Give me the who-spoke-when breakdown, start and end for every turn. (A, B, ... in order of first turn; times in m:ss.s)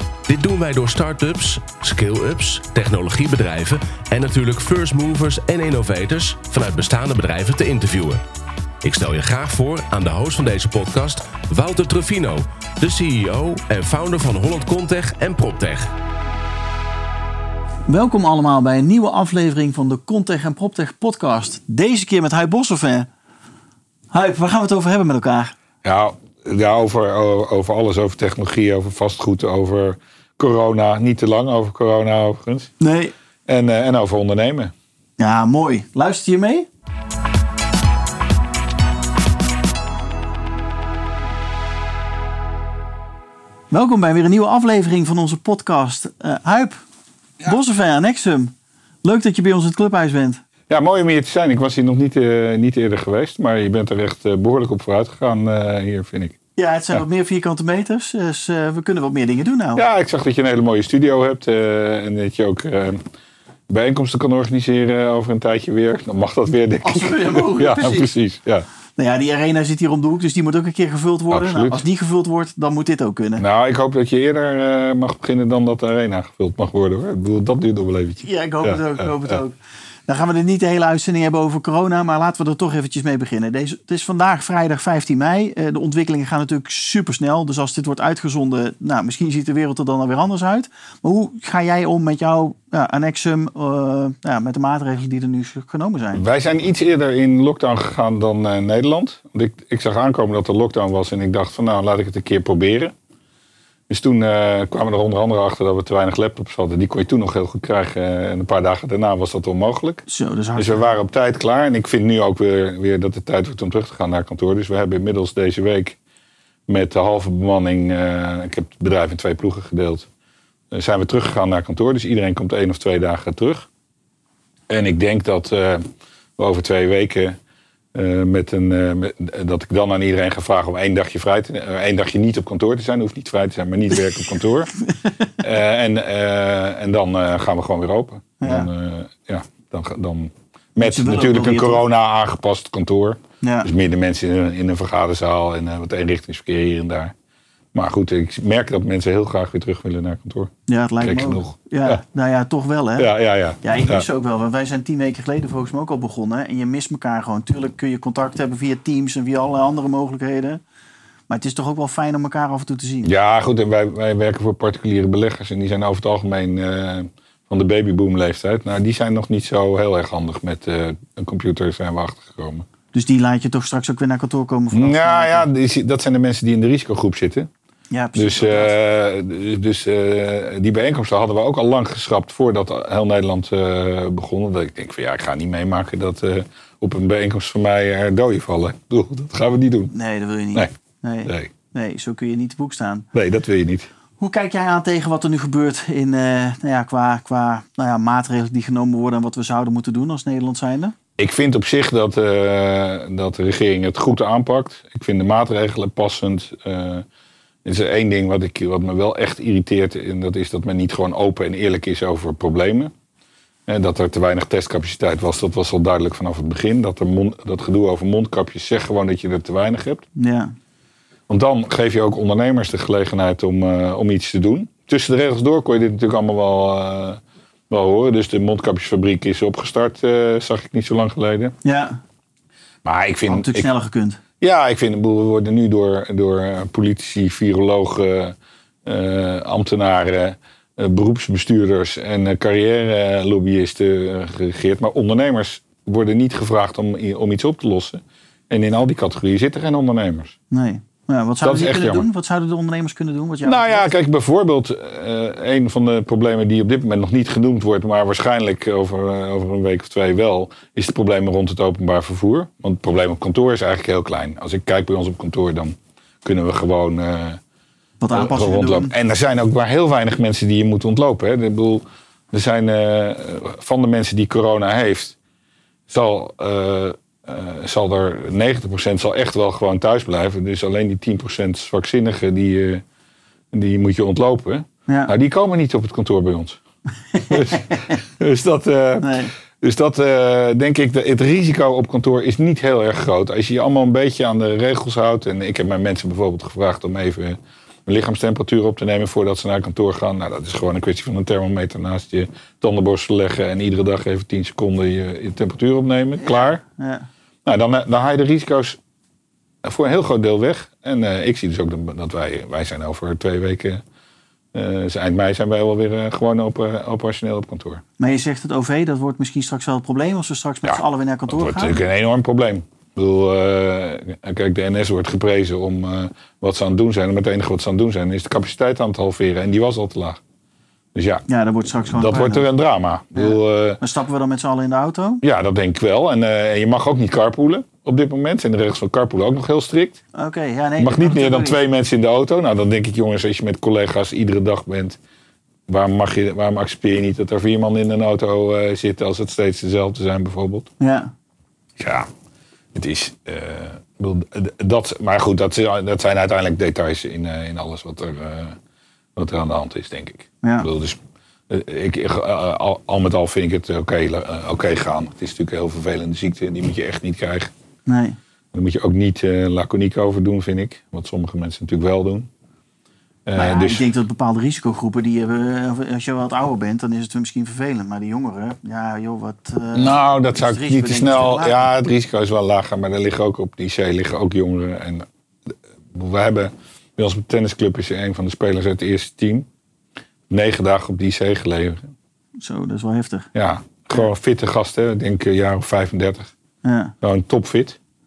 0:00.3-0:08.2 A
0:08.8-0:15.9 A
0:17.9-0:23.1 B
0:24.1-0:25.6 B
0:25.8-0:32.7 C
0:32.8-0:33.1 B
0:33.5-0:34.7 C
0:35.2-0:36.7 B
0:43.7-0:46.8 B
0:47.4-0:48.5 B
0:49.0-0:50.4 B
0:50.7-0:56.4 C
0:56.6-0:59.8 B
0:59.8-1:03.0 C
1:03.7-1:08.7 C
1:06.8-1:08.1 B
1:09.0-1:13.4 B
1:11.3-1:11.8 C
1:13.4-1:19.4 C
1:18.2-1:19.6 B
1:20.1-1:36.2 B
1:36.2-1:42.9 C
1:43.9-1:50.0 C
1:50.1-1:51.0 B
1:50.6-1:56.0 C
1:56.7-2:00.1 C
2:00.7-2:03.7 C
2:04.7-2:05.8 C
2:06.4-2:07.4 C
2:07.9-2:14.7 C
2:15.4-2:27.1 C
2:18.4-2:18.7 B
2:20.8-2:21.8 B
2:23.4-2:23.7 B
2:27.7-2:32.0 C
2:30.7-2:33.1 B
2:33.0-2:34.1 C
2:33.6-2:40.6 B
2:41.3-2:43.1 B
2:43.0-2:52.7 C
2:52.9-2:55.5 B
2:54.7-2:57.5 C
2:57.9-2:58.8 B
2:58.2-3:09.9 C
3:09.9-3:13.1 B
3:11.3-3:11.5 C
3:13.1-3:13.9 C
3:14.2-3:21.0 B
3:21.2-3:27.0 C
3:27.6-3:32.9 C
3:33.7-3:40.0 C
3:40.2-3:40.5 B
3:41.3-3:51.6 C
3:51.6-3:52.0 B
3:52.8-3:53.7 C
3:53.3-3:54.2 B
3:54.4-4:10.4 C
4:10.5-4:13.9 B
4:11.4-4:12.1 C
4:13.4-4:27.4 C
4:28.0-4:28.9 B
4:28.1-4:35.2 C
4:35.9-4:42.8 C
4:43.5-4:46.6 C
4:47.1-4:48.0 B
4:47.2-5:06.6 C
4:49.0-4:49.3 B
5:06.2-5:07.1 B
5:07.5-5:08.8 C
5:09.6-5:13.8 C
5:14.5-5:17.8 C
5:18.0-5:21.8 B
5:20.6-5:30.2 C
5:31.0-5:31.3 C
5:31.3-5:32.5 B
5:31.9-5:33.8 C
5:33.1-5:35.2 B
5:35.2-5:40.0 C
5:40.2-5:41.6 B
5:40.8-5:45.0 C
5:45.7-5:50.7 C
5:50.8-5:51.1 B
5:51.8-5:52.1 C
5:52.7-5:58.6 C
5:59.2-6:01.0 C
6:00.4-6:00.7 B
6:01.5-6:07.5 C
6:07.9-6:08.2 B
6:08.5-6:12.3 C
6:13.3-6:13.9 C
6:13.4-6:21.6 B
6:19.7-6:29.5 C
6:30.3-6:31.9 C
6:32.4-6:33.3 B
6:33.4-6:36.3 C
6:36.6-6:36.9 B
6:37.0-6:37.8 C